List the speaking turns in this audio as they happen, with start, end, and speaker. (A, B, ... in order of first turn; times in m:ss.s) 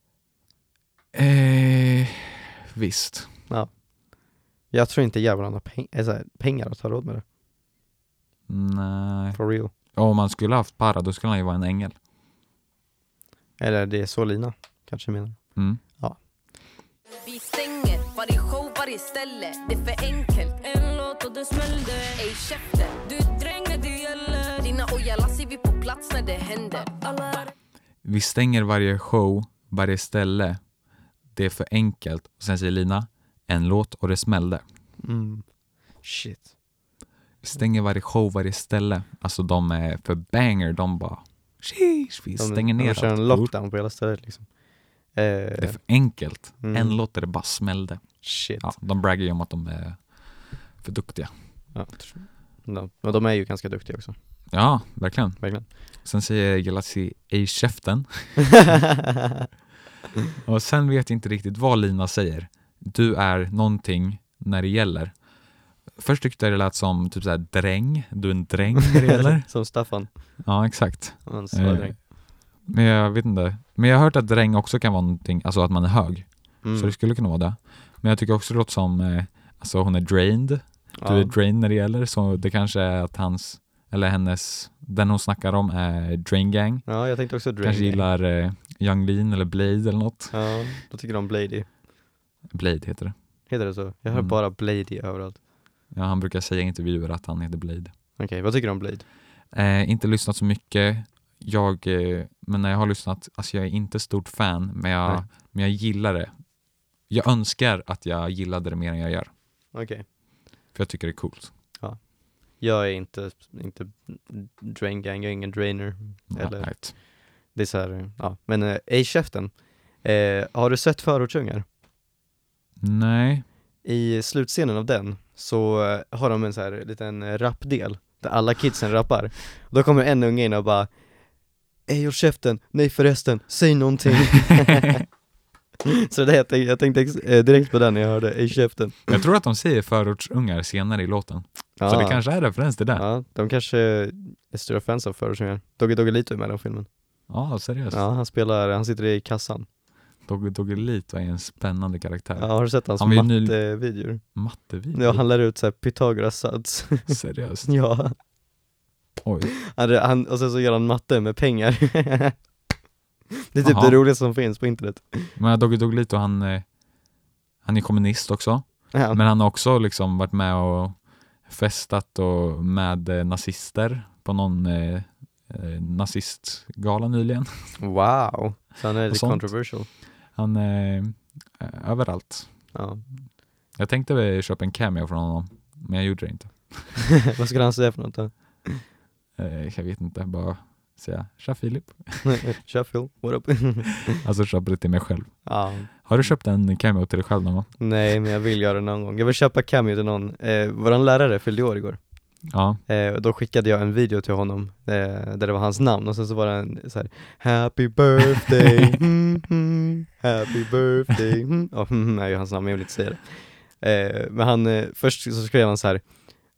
0:01.1-0:03.4 A
0:03.5-0:03.8 B
0:04.7-0:07.2 B
0:08.5-0:09.4 A
0:09.3-0:09.7 B
0:09.9-0:12.0 A
0:13.6-0:16.2 B
0:15.6-0:15.8 A
0:17.3-0:18.1 C
0:18.1-0:20.5 D
0:20.4-0:25.1 C
0:22.2-0:22.9 D
0:24.6-0:26.8 D
0:26.6-0:27.5 C
0:28.0-0:30.6 A
0:31.3-0:34.6 A
0:35.0-0:35.5 B
0:36.0-0:36.5 B
0:37.4-0:43.5 A
0:42.4-0:45.8 B
0:45.6-0:51.3 A
0:46.6-0:47.0 B
0:48.2-0:48.7 B
0:51.7-0:54.1 B
0:54.5-0:58.8 A
0:55.4-0:55.7 B
1:00.4-1:05.2 A
1:06.0-1:09.5 A
1:09.0-1:10.4 B
1:10.4-1:26.9 A
1:11.2-1:12.0 B
1:16.6-1:17.0 B
1:21.0-1:21.4 B
1:26.9-1:28.0 B
1:27.6-1:30.5 A
1:30.3-1:31.7 B
1:32.5-1:33.1 A
1:33.5-1:35.4 B
1:34.1-1:34.4 A
1:35.9-1:37.9 A
1:38.2-1:39.0 B
1:39.5-1:46.3 A
1:47.1-1:49.3 A
1:49.7-1:50.0 B
1:50.7-1:51.5 A
1:51.8-2:01.6 B
1:56.3-1:57.0 A
2:02.8-2:03.4 A
2:03.8-2:10.9 B
2:11.9-2:15.0 B
2:15.9-2:19.2 B
2:19.1-2:23.0 A
2:21.8-2:22.2 B
2:23.0-2:26.9 B
2:27.3-2:28.0 A
2:27.9-2:29.7 B
2:30.3-2:33.6 A
2:32.4-2:34.4 B
2:34.4-2:35.2 A
2:34.9-2:38.1 B
2:37.1-2:37.7 A
2:39.2-2:39.5 A
2:39.7-2:42.4 B
2:43.5-2:45.4 B
2:43.6-2:44.0 A
2:45.4-2:46.7 A
2:47.6-2:57.8 A
2:48.9-2:49.2 B
2:57.8-2:59.9 B
2:59.1-2:59.7 A
3:00.3-3:02.7 A
3:02.7-3:03.0 B
3:03.8-3:07.0 A
3:07.3-3:08.8 B
3:09.4-3:12.5 A
3:12.3-3:14.2 B
3:14.2-3:17.9 A
3:15.4-3:15.9 B
3:17.8-3:22.0 B
3:22.5-3:22.8 A
3:22.9-3:36.0 B